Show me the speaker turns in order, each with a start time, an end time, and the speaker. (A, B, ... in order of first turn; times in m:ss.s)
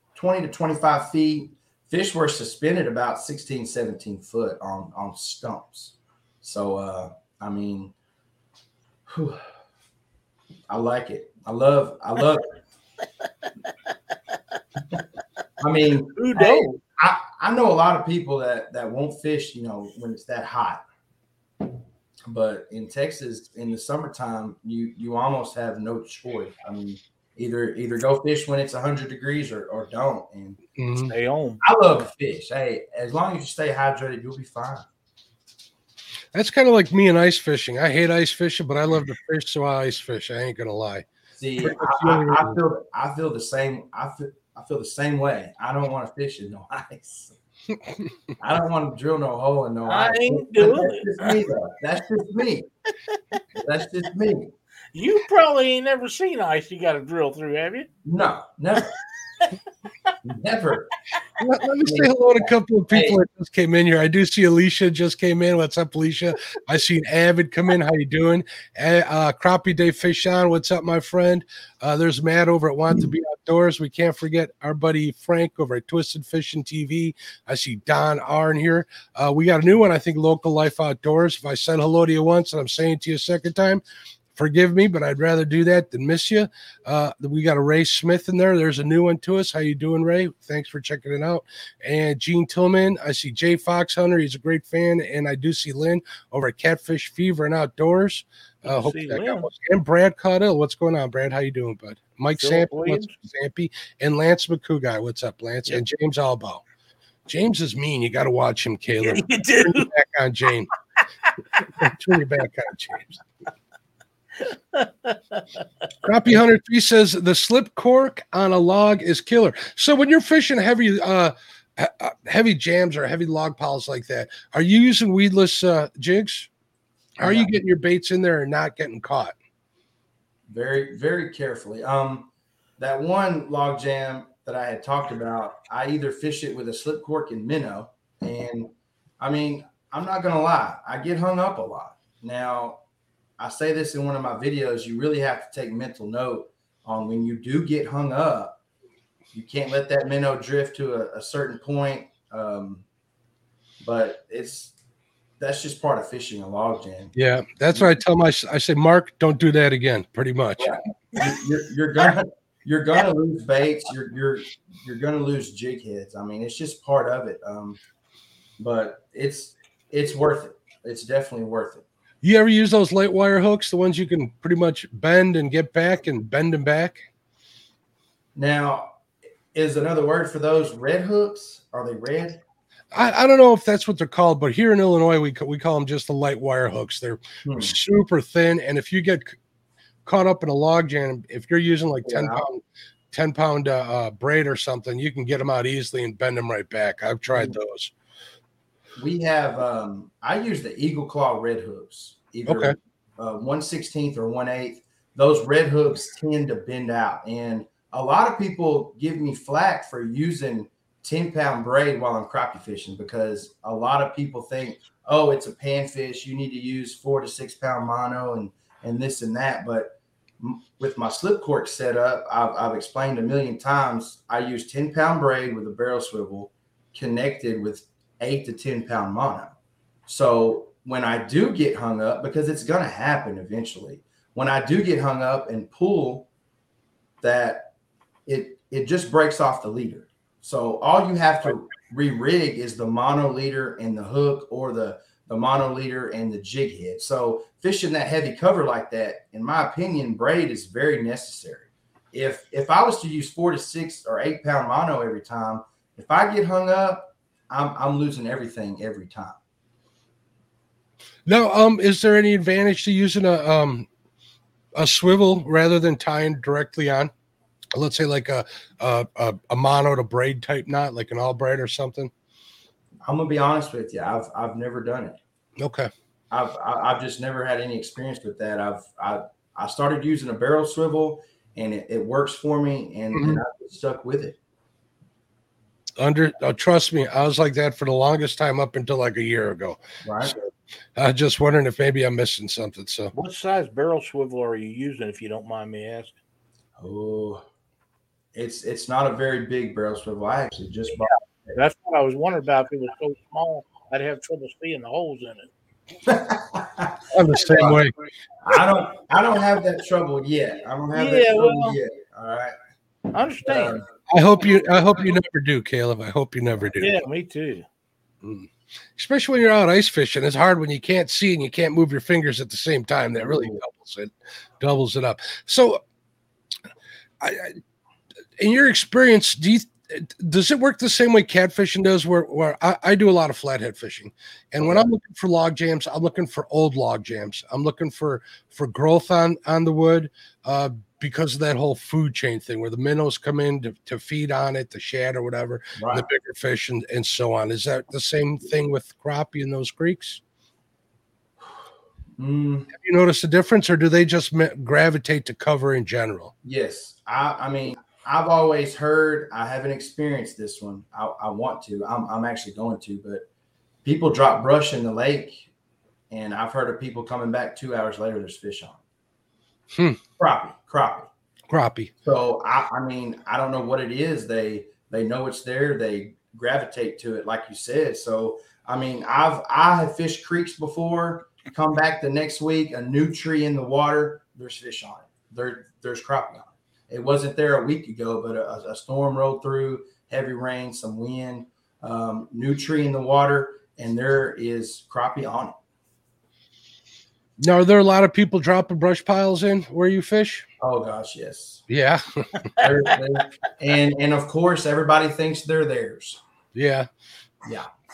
0:00.1-0:07.9 A
0:09.1-0:09.4 A
0:10.7-0:12.5 A
0:15.6-0:20.8 A
0:16.2-0:16.8 B
0:22.3-0:30.6 A
0:30.8-0:31.1 C
0:31.1-0:31.6 B
0:31.6-0:34.8 A
0:36.3-0:41.1 C
0:41.4-0:47.3 A
0:41.6-0:42.6 C
0:48.4-0:52.7 A
0:49.9-0:51.4 B
0:53.1-0:53.4 B
0:53.5-0:54.5 A
0:54.9-0:57.9 B
0:58.0-0:58.9 A
1:00.2-1:00.9 A
1:01.4-1:23.8 C
1:01.8-1:03.2 A
1:24.4-1:46.6 C
1:38.6-1:39.5 B
1:42.4-1:43.2 B
1:47.2-1:50.7 C
1:49.0-1:49.9 B
1:51.8-1:53.2 C
1:54.4-1:55.6 B
1:56.0-2:06.5 C
2:07.2-2:07.5 A
2:07.2-2:09.4 C
2:10.5-2:22.8 A
2:23.4-2:28.6 A
2:29.3-2:32.8 A
2:33.8-2:34.7 A
2:35.4-2:37.1 A
2:37.1-2:40.8 C
2:40.6-2:47.8 A
2:48.6-2:51.8 A
2:52.2-2:57.0 C
2:58.3-2:58.9 A
2:59.5-3:02.4 A
3:02.9-3:09.4 C
3:07.4-3:07.8 A
3:10.0-3:17.9 C
3:12.0-3:12.4 A
3:19.0-3:49.5 A
3:22.5-3:22.7 C
3:50.1-3:56.3 A
3:57.2-3:57.7 A
3:58.2-4:19.4 A
4:21.2-4:23.9 C
4:24.8-4:27.1 C
4:27.7-4:32.1 C
4:33.0-4:35.2 A
4:35.6-4:35.9 C
4:36.3-4:44.4 A
4:43.1-4:43.4 C
4:46.0-4:50.4 C
4:50.0-4:50.4 A
4:51.0-4:53.1 C
4:53.1-4:56.1 B
4:56.8-4:57.4 A
4:58.3-5:01.5 A
5:01.5-5:05.5 B
5:06.0-5:07.8 A
5:07.1-5:07.9 C
5:08.4-5:12.6 A
5:10.9-5:11.8 B
5:13.1-5:13.8 B
5:13.4-5:13.8 A
5:14.1-5:17.0 C
5:16.8-5:17.6 B
5:18.2-5:25.8 C
5:23.2-5:23.6 A
5:27.2-5:27.6 C
5:28.4-5:50.2 C
5:45.8-5:46.1 A
5:52.2-5:52.7 A
5:52.7-5:56.3 C
5:56.4-6:03.2 A
6:03.8-6:05.5 A
6:06.1-6:08.8 A
6:09.7-6:10.0 C
6:10.2-6:11.1 A
6:11.5-6:11.9 C
6:12.0-6:35.6 A
6:37.4-6:40.4 C
6:40.6-6:41.6 A
6:41.7-6:42.4 C
6:42.4-6:42.6 B
6:42.6-6:46.2 A
6:46.5-6:46.9 C